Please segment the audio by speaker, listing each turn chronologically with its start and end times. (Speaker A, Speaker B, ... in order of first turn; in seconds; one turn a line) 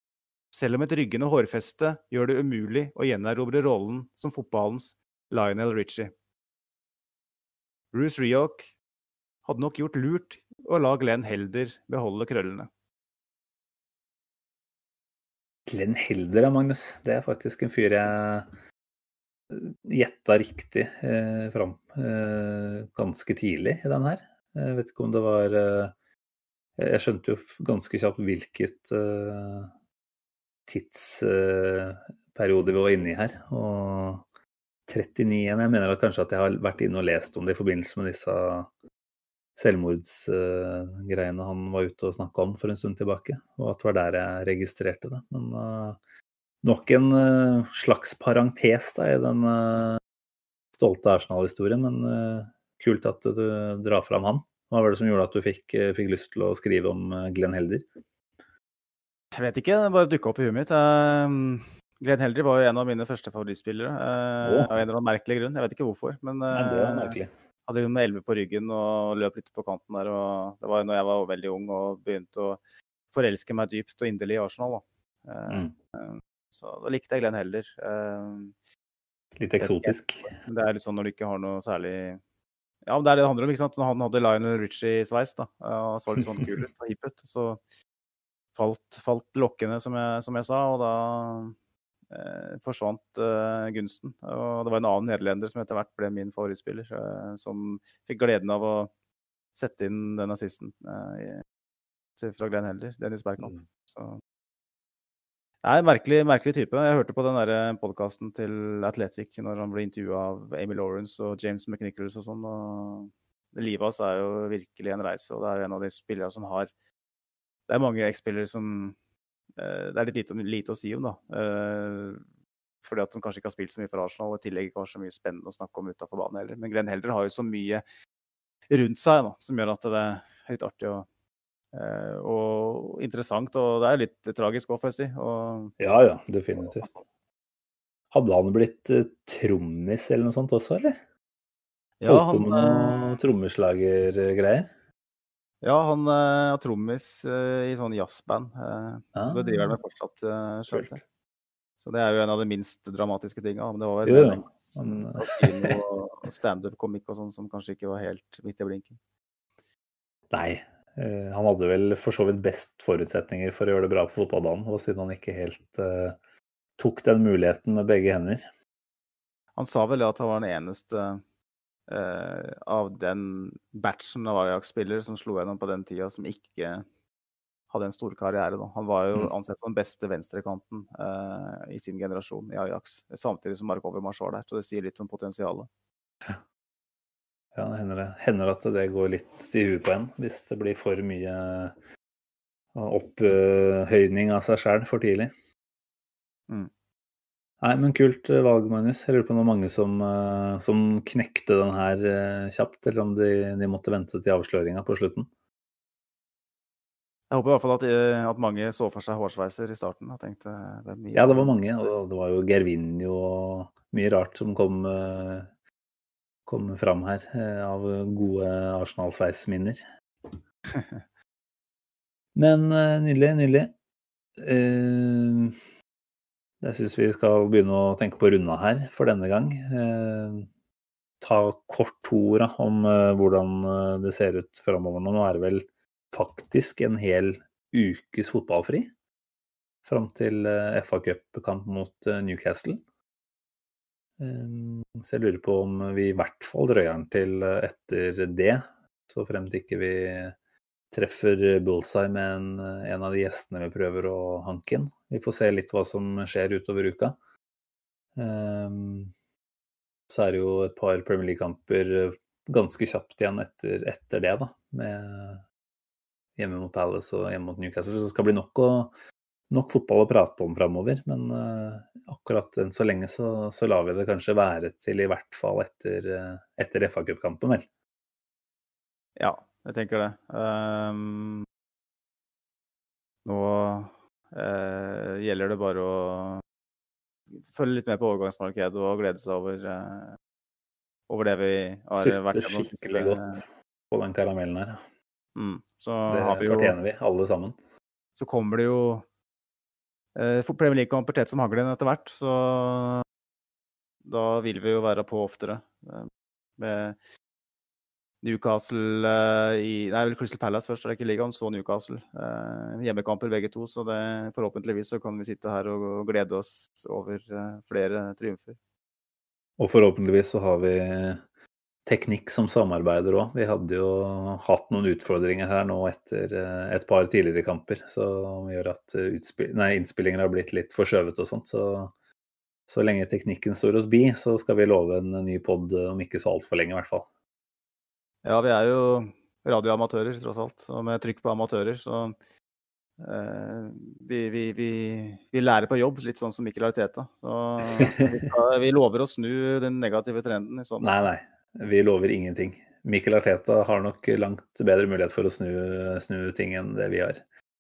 Speaker A: 0.5-6.1
Speaker A: 7.9-8.7
Speaker A: 9.4-12.7
Speaker B: 15.7-18.5
Speaker B: 19.5-25.9
Speaker B: 26.8-29.7
Speaker B: 30.7-34.2
Speaker B: 34.9-38.7
Speaker B: 39.6-46.0
Speaker B: 46.6-50.0
Speaker B: 50.7-57.9
Speaker A: 59.3-72.6
Speaker B: 64.4-64.7
Speaker B: 66.5-67.3
Speaker A: 73.1-78.5
Speaker B: 79.4-80.3
Speaker A: 79.6-82.2
Speaker A: 82.9-87.6
Speaker A: 88.5-91.5
Speaker A: 92.1-98.9
Speaker A: 99.5-101.4
Speaker A: 102.2-104.2
Speaker A: 105.6-116.7
Speaker A: 117.7-119.0
Speaker A: 119.6-122.2
Speaker A: 122.8-127.8
Speaker A: 128.7-131.1
Speaker A: 131.7-135.7
Speaker B: 135.8-136.9
Speaker B: 138.1-141.0
Speaker A: 142.0-143.2
Speaker B: 142.1-144.7
Speaker A: 145.6-151.0
Speaker B: 149.2-149.8
Speaker B: 150.7-151.0
Speaker A: 151.8-159.0
Speaker B: 154.1-155.8
Speaker B: 160.3-166.2
Speaker B: 166.8-168.5
Speaker A: 169.6-171.2
Speaker A: 171.9-176.8
Speaker A: 177.7-185.7
Speaker B: 187.6-191.8
Speaker B: 192.8-195.3
Speaker B: 197.6-205.3
Speaker A: 207.3-211.5
Speaker B: 211.2-215.5
Speaker B: 216.5-220.3
Speaker A: 220.7-221.0
Speaker B: 222.3-223.7
Speaker B: 224.4-225.6
Speaker B: 226.6-230.5
Speaker B: 231.2-238.9
Speaker B: 239.8-242.8
Speaker B: 244.2-250.4
Speaker B: 250.9-257.2
Speaker B: 258.2-259.1
Speaker B: 260.1-265.4
Speaker B: 266.4-268.9
Speaker B: 269.5-277.7
Speaker A: 279.2-281.5
Speaker A: 283.2-286.4
Speaker A: 287.4-290.2
Speaker A: 291.1-293.4
Speaker B: 292.0-294.8
Speaker A: 295.4-296.8
Speaker B: 296.1-297.6
Speaker A: 298.2-299.1
Speaker A: 300.1-303.1
Speaker A: 304.1-307.0
Speaker A: 308.2-318.6
Speaker B: 319.6-321.2
Speaker B: 321.9-331.9
Speaker B: 332.7-337.1
Speaker A: 338.2-342.1
Speaker A: 343.0-351.1
Speaker B: 350.8-357.2